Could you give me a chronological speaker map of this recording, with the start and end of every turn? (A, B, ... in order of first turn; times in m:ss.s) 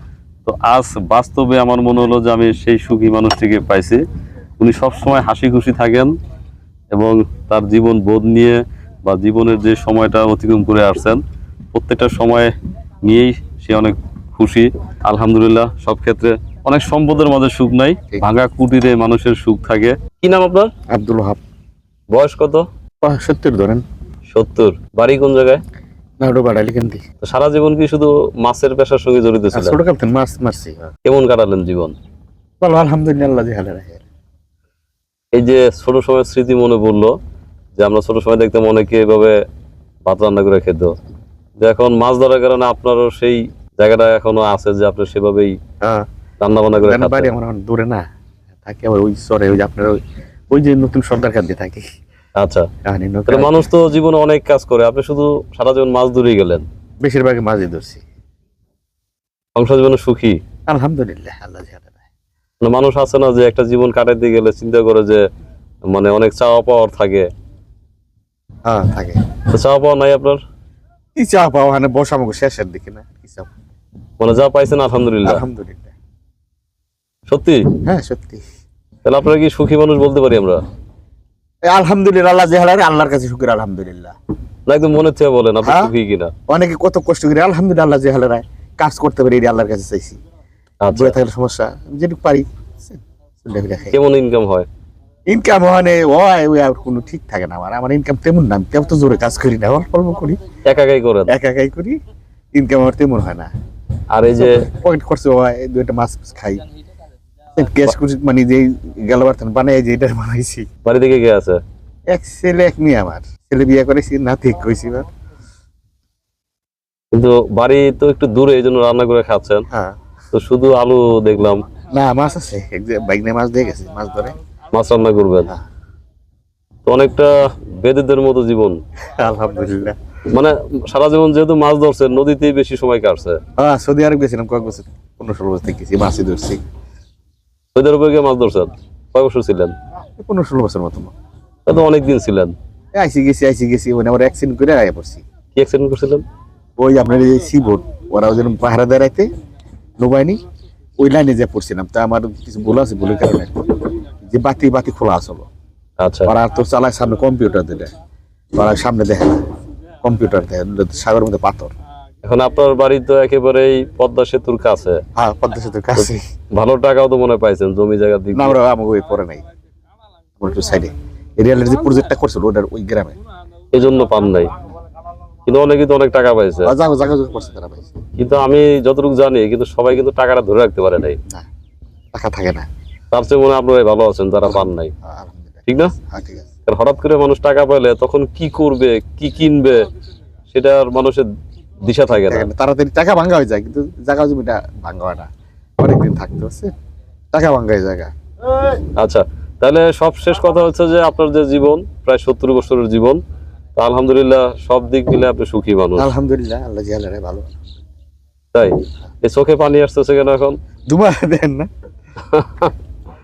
0:00.5-0:04.0 A
0:04.6-0:06.1 A
0:06.9-0:11.2 A
0:11.7-0:12.5 A
0:13.0-0:20.7 A
0:20.9-0:21.4 B
0:22.1-0:22.6 A
0:23.0-0:23.8 B
0:24.3-0:25.6 A
0:26.2-0:27.0 B
0:27.2-0:29.8 A
0:29.5-0:30.9 B
0:31.0-0:31.9 A
0:32.6-0:34.0 B
0:35.3-0:37.1 A
0:37.8-0:39.4 A
0:40.1-0:40.9 A
0:41.6-0:45.6 A
0:45.8-0:46.1 B
0:46.4-0:47.3 A
0:46.8-0:48.0 B
0:48.6-0:50.0 B
0:50.5-0:52.0 B
0:52.4-0:52.7 A
0:52.8-0:53.7 B
0:53.3-0:56.6 A
0:57.0-0:58.0 B
0:59.6-1:00.4 A
1:00.7-1:02.0 B
1:02.6-1:05.2 A
1:05.9-1:07.3 A
1:08.7-1:09.2 B
1:09.5-1:10.4 A
1:11.2-1:13.5 B
1:14.2-1:15.4 A
1:15.2-1:15.9 B
1:17.3-1:17.6 A
1:17.8-1:18.4 B
1:19.0-1:20.6 A
1:21.7-1:24.1 B
1:24.7-1:26.3 A
1:25.6-1:25.9 B
1:26.5-1:30.2 B
1:30.8-1:31.2 A
1:30.9-1:34.0 B
1:33.9-1:34.7 A
1:35.3-1:40.4 B
1:40.7-1:41.3 A
1:41.3-1:42.0 B
1:42.5-1:43.5 B
1:44.1-1:44.6 A
1:44.4-1:46.6 B
1:47.6-1:50.7 B
1:50.8-1:51.6 A
1:52.1-1:55.1 B
1:57.1-1:59.7 A
1:59.7-2:00.0 B
2:00.3-2:01.6 A
2:01.9-2:04.4 B
2:04.7-2:05.5 A
2:06.9-2:08.8 A
2:09.1-2:10.0 B
2:10.3-2:13.4 A
2:13.6-2:16.6 B
2:17.8-2:19.7 A
2:20.2-2:21.1 B
2:21.7-2:22.5 A
2:23.0-2:25.2 B
2:25.6-2:26.2 A
2:26.8-2:29.3 B
2:30.0-2:30.4 B
2:31.0-2:35.5 B
2:36.0-2:36.3 A
2:36.3-2:37.9 B
2:38.6-2:39.4 B
2:40.0-2:41.7 B
2:42.2-2:45.0 A
2:45.2-2:46.2 B
2:46.0-2:48.6 A
2:48.4-2:49.4 B
2:50.4-2:53.2 B
2:53.7-2:54.5 A
2:55.5-2:56.7 A
2:56.7-2:58.0 B
2:58.2-3:01.2 A
3:02.1-3:02.7 B
3:03.1-3:04.9 A
3:04.4-3:06.5 B
3:05.7-3:05.9 A
3:06.7-3:09.8 A
3:10.5-3:11.3 A
3:11.8-3:12.5 A
3:12.1-3:15.3 B
3:15.8-3:16.7 B
3:17.3-3:18.1 B
3:19.0-3:23.2 A
3:23.8-3:26.1 A
3:26.0-3:27.7 B
3:28.5-3:30.6 A
3:30.9-3:31.7 B
3:32.2-3:32.8 A